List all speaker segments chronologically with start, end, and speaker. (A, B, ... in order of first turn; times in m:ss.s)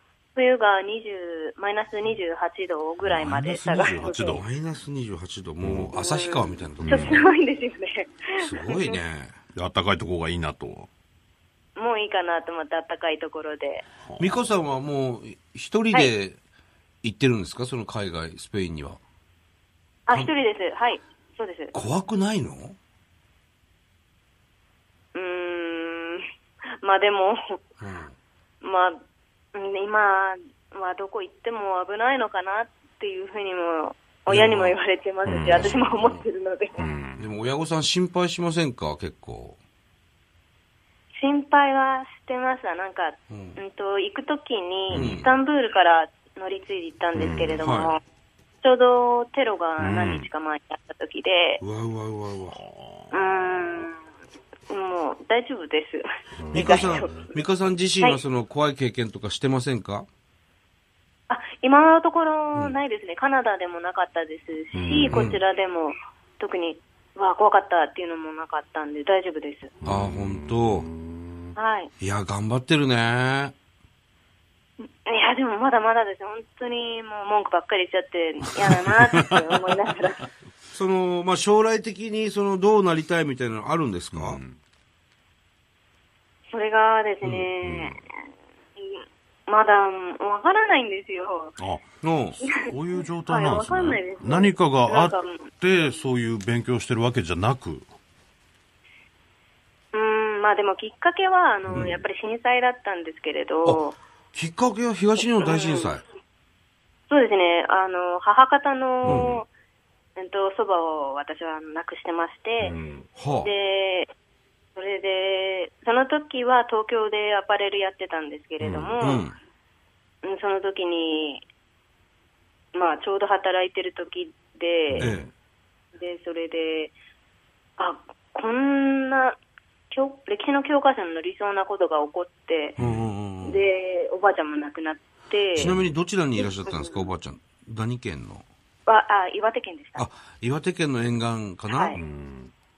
0:00.4-0:04.4 A
0:03.0-0:04.4 B
0:04.3-0:07.3 C
0:05.6-0:05.9 B
0:05.9-0:09.0 A
0:06.8-0:07.2 B
0:08.4-0:09.4 C
0:09.5-0:10.9 B
0:11.8-0:13.9 A
0:14.0-0:14.4 B
0:14.2-0:16.4 C
0:17.0-0:19.0 C
0:20.1-0:21.7 A
0:21.7-0:22.8 C
0:25.1-0:26.2 A
0:26.8-0:27.6 A
0:27.8-0:28.2 C
0:28.6-0:29.0 A
0:29.5-0:36.8 A
0:34.3-0:34.8 C
0:35.2-0:36.2 B
0:35.5-0:36.2 C
0:36.8-0:37.2 B
0:37.2-0:39.6 C
0:41.2-0:48.0 A
0:43.3-0:43.6 C
0:44.9-0:45.2 B
0:44.9-0:45.3 C
0:47.2-0:47.7 B
0:47.6-0:48.0 C
0:48.6-0:51.6 A
0:49.8-0:50.3 B
0:51.6-0:52.6 C
0:52.5-0:53.8 B
0:53.1-0:54.0 A
0:54.7-0:57.4 A
0:56.4-0:57.2 B
0:56.5-1:00.1 C
1:01.3-1:09.7 A
1:04.7-1:05.3 B
1:05.1-1:05.4 C
1:09.8-1:11.5 B
1:09.8-1:10.9 C
1:11.6-1:11.9 A
1:12.0-1:13.5 C
1:14.8-1:20.3 A
1:18.7-1:19.4 B
1:20.7-1:24.4 C
1:24.1-1:24.6 B
1:26.5-1:28.1 A
1:27.2-1:27.5 C
1:27.6-1:28.0 B
1:28.8-1:31.6 A
1:31.6-1:31.9 B
1:32.0-1:32.4 C
1:32.4-1:37.9 B
1:32.4-1:36.0 A
1:39.9-1:44.0 A
1:41.7-1:42.0 C
1:43.6-1:46.0 C
1:45.2-1:46.0 A
1:47.1-1:49.5 A
1:49.0-1:49.4 B
1:49.0-1:49.3 C
1:50.2-1:52.7 A
1:52.6-1:53.1 B
1:53.2-1:53.5 C
1:53.4-1:54.1 A
1:54.8-1:59.3 A
1:58.6-1:59.0 B
1:59.0-1:59.3 C
2:00.2-2:01.4 A
2:02.7-2:05.1 A
2:04.9-2:05.3 B
2:05.0-2:05.3 C
2:06.0-2:06.9 A
2:07.8-2:09.4 A
2:09.9-2:12.8 A
2:12.8-2:13.1 B
2:12.8-2:13.6 C
2:13.4-2:15.8 A
2:15.6-2:18.4 C
2:15.6-2:15.9 B
2:16.4-2:17.1 A
2:18.9-2:20.1 A
2:20.0-2:22.0 C
2:21.7-2:22.0 A
2:22.0-2:22.5 B